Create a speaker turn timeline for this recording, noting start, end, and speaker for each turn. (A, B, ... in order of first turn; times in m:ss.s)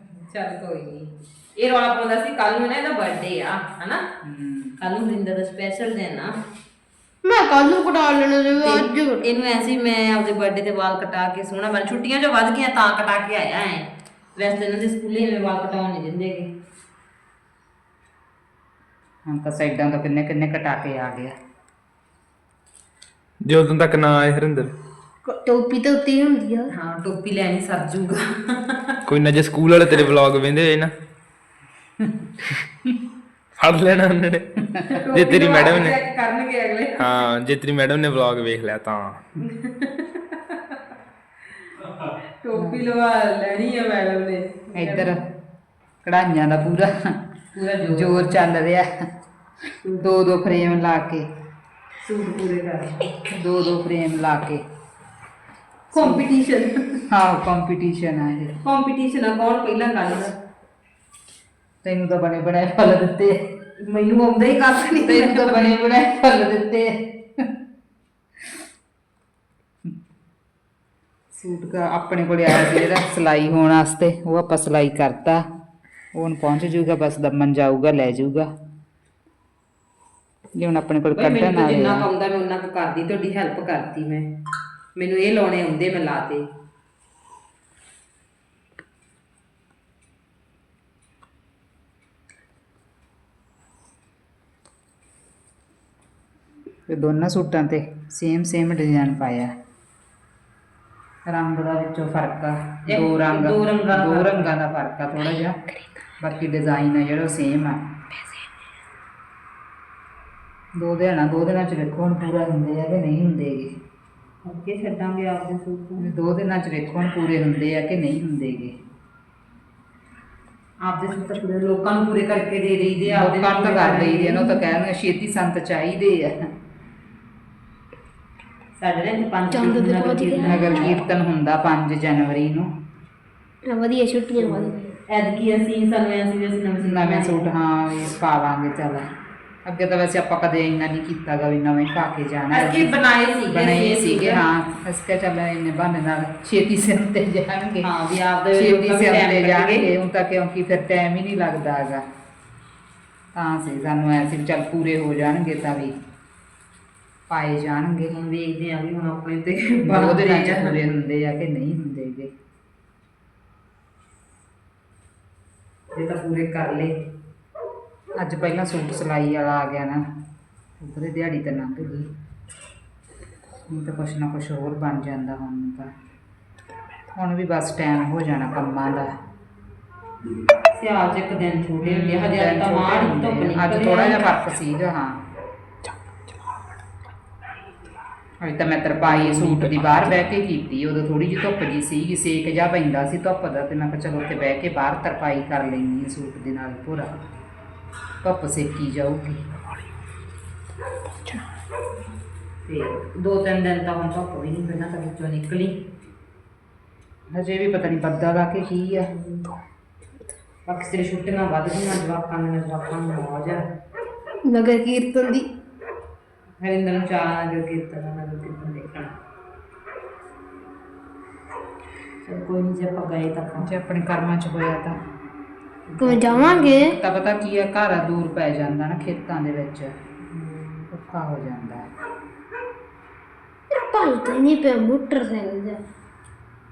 0:00.1-0:04.0 A
0:04.2-0:04.8 B
0:04.8-0:06.3 A
0:07.2-0:09.2 C
0:08.5-0:16.5 A
0:19.2-0:21.3 B
0:23.4-0:24.7 D
0:25.2-0:26.7 C
0:26.7-0:29.0 A
0:29.1-0:30.9 D
0:32.0-0:32.3 B
0:33.6-0:36.0 D
0:34.8-0:37.1 A
0:37.0-0:39.2 D
0:39.4-0:40.8 A
0:42.4-0:45.1 A
0:42.6-0:42.8 B
0:44.8-0:45.2 B
0:46.0-0:47.2 B
0:47.5-0:48.4 A
0:47.9-0:48.9 B
0:49.8-0:50.1 A
0:50.0-0:51.2 B
0:52.0-0:53.1 A
0:53.3-0:54.6 B
0:55.9-0:57.0 A
0:55.9-0:56.2 B
0:57.1-0:58.6 B
0:58.6-1:00.3 A
1:01.8-1:03.4 B
1:03.8-1:05.8 A
1:05.0-1:06.9 B
1:11.3-1:15.4 B
1:16.1-1:18.5 B
1:20.6-1:22.1 B
1:21.1-1:24.3 A
1:25.0-1:26.4 A
1:36.9-1:39.5 B
1:41.2-1:45.6 B
1:42.9-1:44.5 A
1:46.2-1:47.8 B
1:50.8-1:53.7 B
1:54.4-1:56.1 A
1:56.0-1:58.8 B
2:00.8-2:04.6 A
2:03.0-2:06.3 B
2:08.8-2:11.0 A
2:09.5-2:11.0 C
2:10.4-2:12.7 B
2:13.6-2:14.9 C
2:14.4-2:17.5 A
2:16.8-2:19.1 B
2:19.6-2:22.9 B
2:22.5-2:24.4 A
2:23.5-2:27.9 B
2:27.8-2:29.9 A
2:28.5-2:32.0 B
2:33.4-2:35.9 B
2:37.3-2:38.2 B
2:38.1-2:40.8 A
2:39.8-2:42.3 B
2:45.9-2:46.9 A
2:48.2-2:50.0 B
2:50.8-2:52.1 B
2:53.7-2:55.9 B
2:57.1-2:59.1 B
3:00.7-3:04.3 A
3:01.8-3:05.2 B
3:08.4-3:17.1 B
3:09.0-3:09.7 A
3:18.2-3:19.4 B
3:22.6-3:25.8 A
3:27.3-3:29.1 B
3:29.0-3:29.5 A
3:30.6-3:33.6 A
3:34.4-3:35.5 C
3:36.6-3:39.1 A
3:42.2-3:43.7 A
3:43.6-3:45.0 B
3:45.9-3:46.6 A
3:46.0-3:47.0 C
3:46.4-3:49.9 B
3:50.3-3:50.9 A
3:50.9-3:51.8 B
3:53.7-3:55.8 C